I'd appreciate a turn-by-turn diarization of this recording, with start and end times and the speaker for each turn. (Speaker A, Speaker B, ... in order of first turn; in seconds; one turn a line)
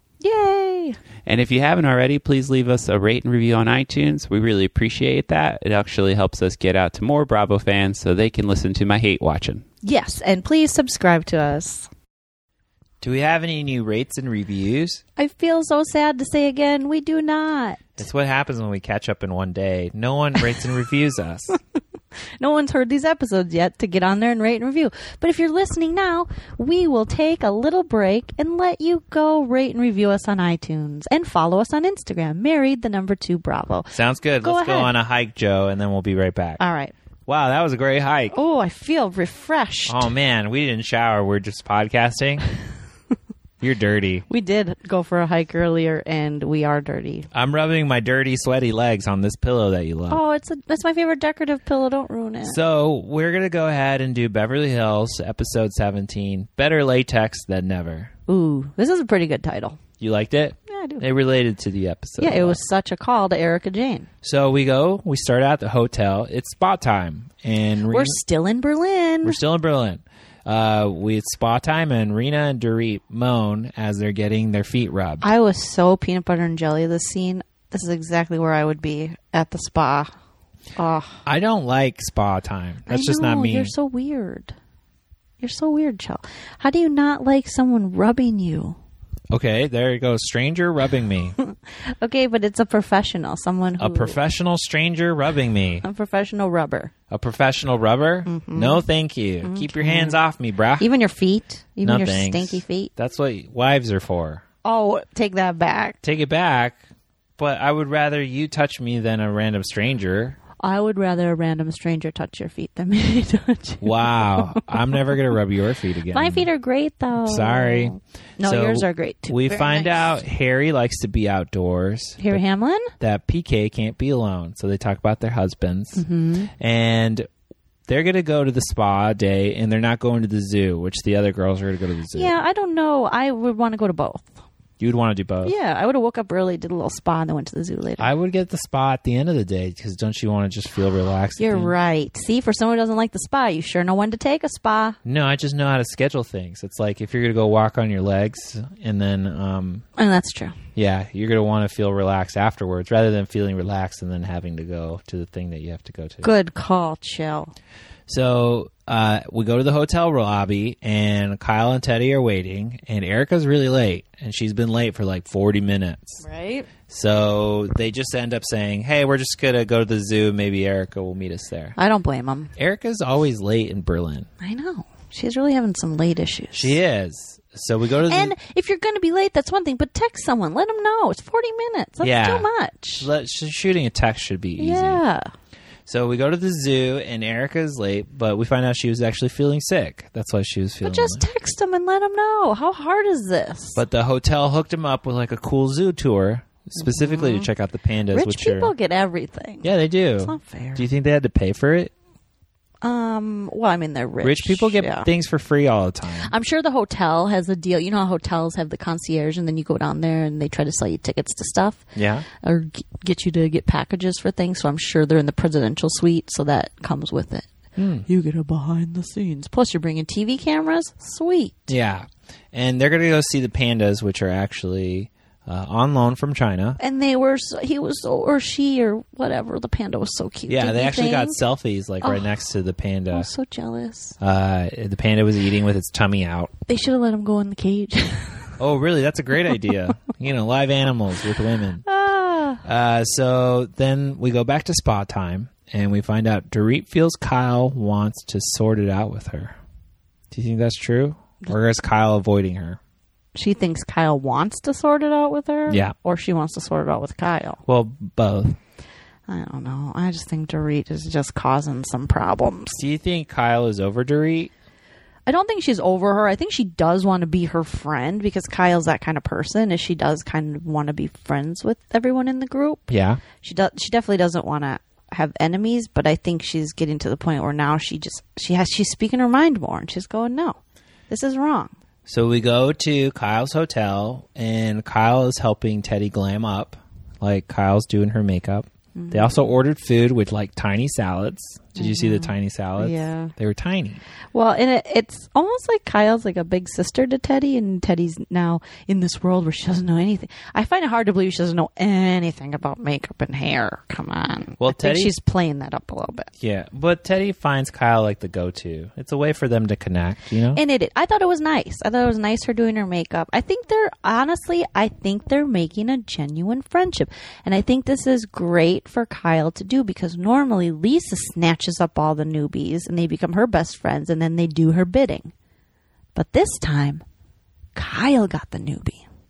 Speaker A: 0.2-1.0
Speaker B: 1.2-9.6
Speaker A: 9.8-11.9
Speaker C: 13.0-15.0
Speaker A: 15.2-17.9
Speaker C: 17.9-21.6
Speaker A: 22.4-34.9
Speaker C: 33.9-36.6
Speaker A: 36.6-36.9
Speaker C: 37.2-38.3
Speaker A: 38.3-40.1
Speaker C: 39.9-42.4
Speaker C: 43.6-44.2
Speaker A: 44.3-47.3
Speaker C: 47.3-50.2
Speaker A: 50.1-52.6
Speaker C: 52.4-58.1
Speaker A: 58.3-59.8
Speaker C: 60.0-62.6
Speaker A: 60.7-61.0
Speaker A: 62.2-64.1
Speaker C: 64.2-68.2
Speaker A: 67.9-69.4
Speaker C: 69.2-75.2
Speaker A: 75.2-80.1
Speaker A: 80.8-81.2
Speaker C: 81.2-83.7
Speaker A: 82.9-84.5
Speaker A: 85.4-88.8
Speaker C: 89.3-91.3
Speaker A: 91.4-94.2
Speaker C: 93.8-95.8
Speaker A: 95.8-96.9
Speaker C: 97.1-100.9
Speaker A: 98.3-98.8
Speaker A: 99.4-100.2
Speaker A: 100.8-102.9
Speaker C: 101.8-104.4
Speaker A: 104.6-106.0
Speaker C: 106.0-106.8
Speaker C: 107.4-110.4
Speaker A: 110.6-115.1
Speaker C: 113.8-116.5
Speaker A: 116.1-120.1
Speaker C: 117.2-122.4
Speaker A: 122.2-122.9
Speaker C: 123.0-126.0
Speaker A: 126.0-126.5
Speaker C: 126.6-127.3
Speaker C: 127.9-132.3
Speaker A: 132.1-134.3
Speaker C: 134.8-135.5
Speaker A: 135.4-138.1
Speaker C: 138.0-141.7
Speaker A: 141.4-145.0
Speaker C: 145.0-149.8
Speaker A: 150.0-150.6
Speaker C: 150.7-156.3
Speaker A: 156.2-157.5
Speaker C: 158.1-166.2
Speaker A: 166.2-166.7
Speaker C: 166.9-171.8
Speaker A: 171.8-172.5
Speaker C: 172.6-174.3
Speaker A: 174.4-176.8
Speaker C: 176.5-178.3
Speaker A: 178.1-183.1
Speaker C: 182.0-182.5
Speaker C: 183.0-185.0
Speaker A: 184.6-185.3
Speaker C: 185.8-191.2
Speaker A: 190.8-193.8
Speaker C: 193.8-198.7
Speaker A: 196.8-197.5
Speaker A: 198.1-200.8
Speaker C: 199.6-201.9
Speaker A: 202.8-205.1
Speaker C: 204.2-206.3
Speaker A: 206.2-211.8
Speaker C: 211.9-212.2
Speaker A: 212.4-217.5
Speaker C: 217.8-218.1
Speaker A: 218.0-221.8
Speaker C: 221.7-226.8
Speaker A: 226.8-231.4
Speaker C: 230.5-233.3
Speaker A: 232.0-232.3
Speaker A: 233.1-234.2
Speaker C: 234.2-236.5
Speaker A: 236.7-238.4
Speaker C: 238.6-241.8
Speaker A: 241.8-242.6
Speaker C: 242.6-249.6
Speaker C: 250.3-252.8
Speaker A: 253.3-257.6
Speaker C: 255.7-255.9
Speaker C: 257.6-258.6
Speaker A: 259.3-262.8
Speaker C: 262.7-264.5
Speaker A: 265.3-280.6
Speaker C: 272.9-273.2
Speaker A: 281.1-281.7
Speaker C: 282.1-294.0
Speaker A: 288.9-289.3
Speaker A: 291.8-293.3
Speaker A: 294.3-306.3
Speaker C: 304.6-305.1
Speaker C: 306.4-310.6
Speaker A: 310.5-325.3
Speaker A: 326.1-327.0
Speaker A: 327.7-329.0